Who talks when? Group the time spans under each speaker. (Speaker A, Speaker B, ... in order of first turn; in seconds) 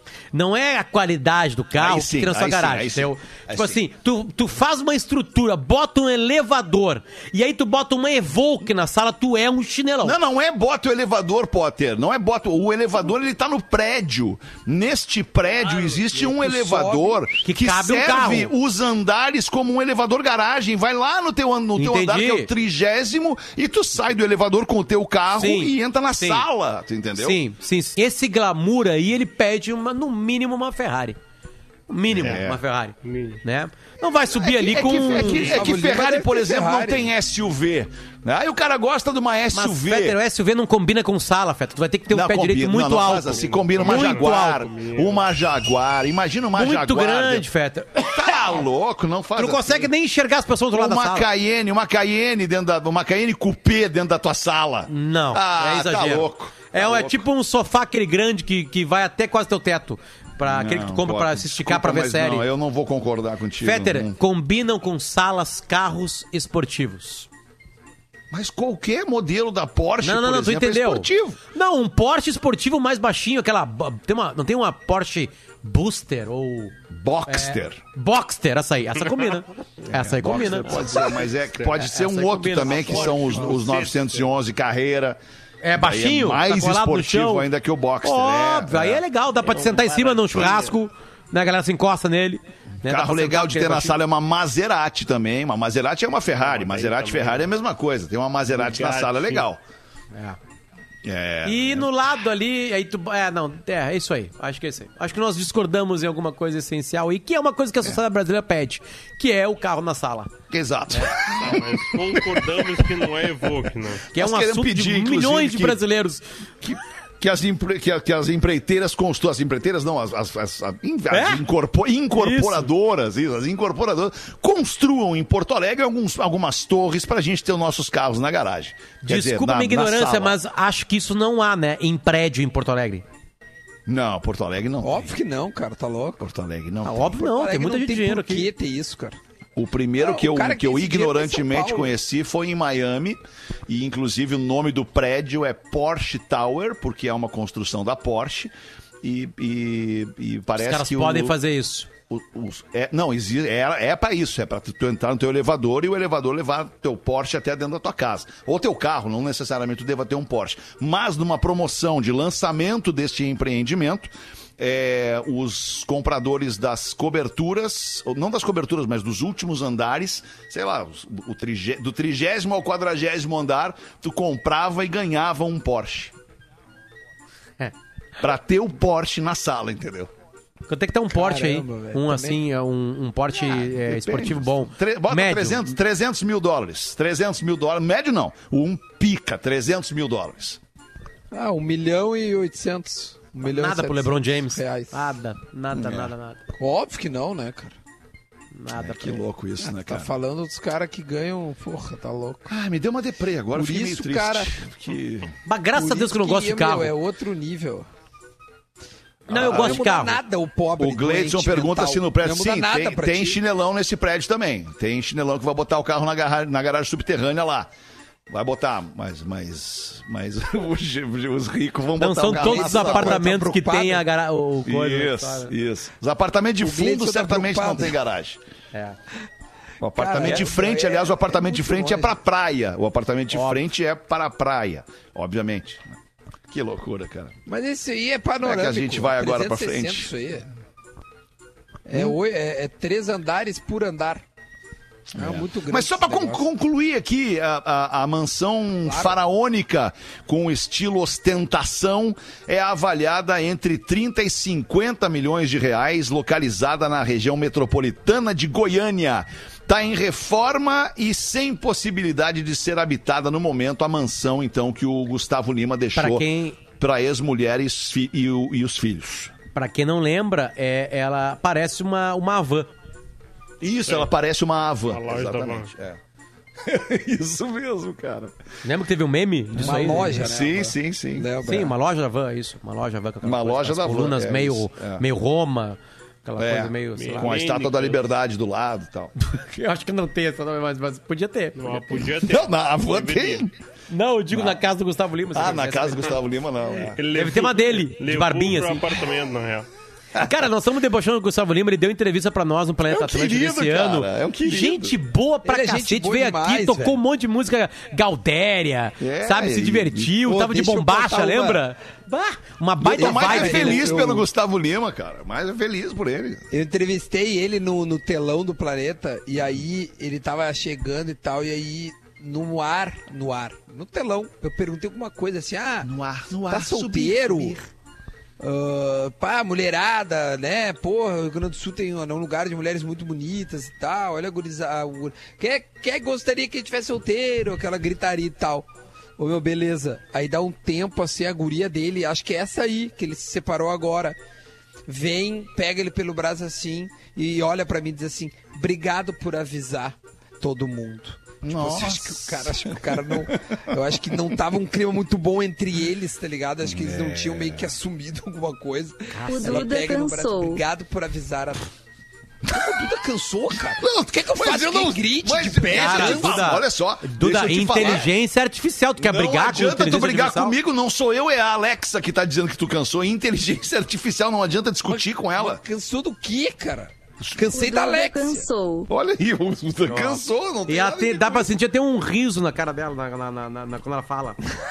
Speaker A: 0.3-10.2, 17.4-18.5, 21.8-22.5, 25.3-26.4, 27.2-31.2, 31.9-35.6, 39.5-44.6, 46.5-47.9, 49.4-51.3, 54.9-62.5, 63.6-67.3, 70.0-76.7, 77.3-81.0, 81.8-83.5, 85.6-87.5, 88.0-93.9, 101.4-110.3, 114.1-116.2, 121.1-121.4, 122.1-122.7, 129.1-133.0, 136.8-138.5, 150.6-151.9, 180.7-185.7, 193.4-196.4, 198.5-199.2, 205.4-206.9, 209.3-210.2, 222.0-225.5, 230.2-230.5, 233.3-233.6, 265.9-266.6, 269.5-272.7, 278.6-280.3, 281.4-287.3, 289.2-291.8, 293.9-296.2, 297.1-298.9, 300.2-313.9, 359.2-359.7, 365.7-370.5, 379.9-384.4
Speaker B: 1.8-3.8, 10.0-27.4, 32.1-32.6, 34.3-40.2, 42.1-49.9, 50.7-57.2, 60.4-64.1, 68.3-71.4, 76.9-77.8, 80.0-85.2, 85.8-89.0, 92.8-99.6, 101.0-101.9, 110.5-112.4, 114.1-115.8, 116.6-130.4, 133.9-135.1, 136.2-137.2, 139.6-151.3, 152.1-176.1, 178.2-180.1, 183.4-190.6, 195.7-196.1, 198.7-200.1, 202.5-205.3, 209.3-209.8, 210.8-217.7, 218.3-223.2, 224.7-228.4, 229.8-235.9, 236.5-237.3, 238.4-240.1, 241.9-242.2, 245.1-266.2, 266.8-269.3, 273.6-276.0, 276.6-278.3, 279.5-281.3, 283.2-285.0, 286.4-289.1, 292.2-293.5, 294.3-294.6, 295.3-297.0, 302.9-304.9, 309.0-310.1, 312.8-316.4, 325.8-327.7, 351.4-353.8, 356.6-357.7, 363.8-368.1, 369.0-375.6, 378.9-381.5
Speaker C: 15.6-17.2, 35.1-37.0, 134.8-136.2, 137.2-139.2, 140.0-141.9, 181.1-182.4, 191.3-194.9, 196.6-197.8, 199.8-202.5, 203.5-204.5, 205.7-207.9, 209.3-213.4, 222.3-224.0, 226.6-227.9, 230.0-232.1, 237.5-240.5, 241.9-244.2, 245.2-246.4, 248.8-249.2, 279.6-281.7, 305.4-307.0, 310.2-311.6, 313.0-314.2, 316.5-325.9, 326.5-327.6, 328.4-344.2, 344.9-361.7, 362.5-366.5, 374.9-378.5
Speaker D: 33.0-33.4, 43.3-45.2, 79.8-81.8, 82.9-84.3, 89.6-90.7, 96.4-97.5, 98.5-99.5, 111.3-114.0, 274.9-275.7, 287.0-288.0, 291.6-293.4, 297.0-299.7
Speaker E: 359.2-360.6, 377.5-378.9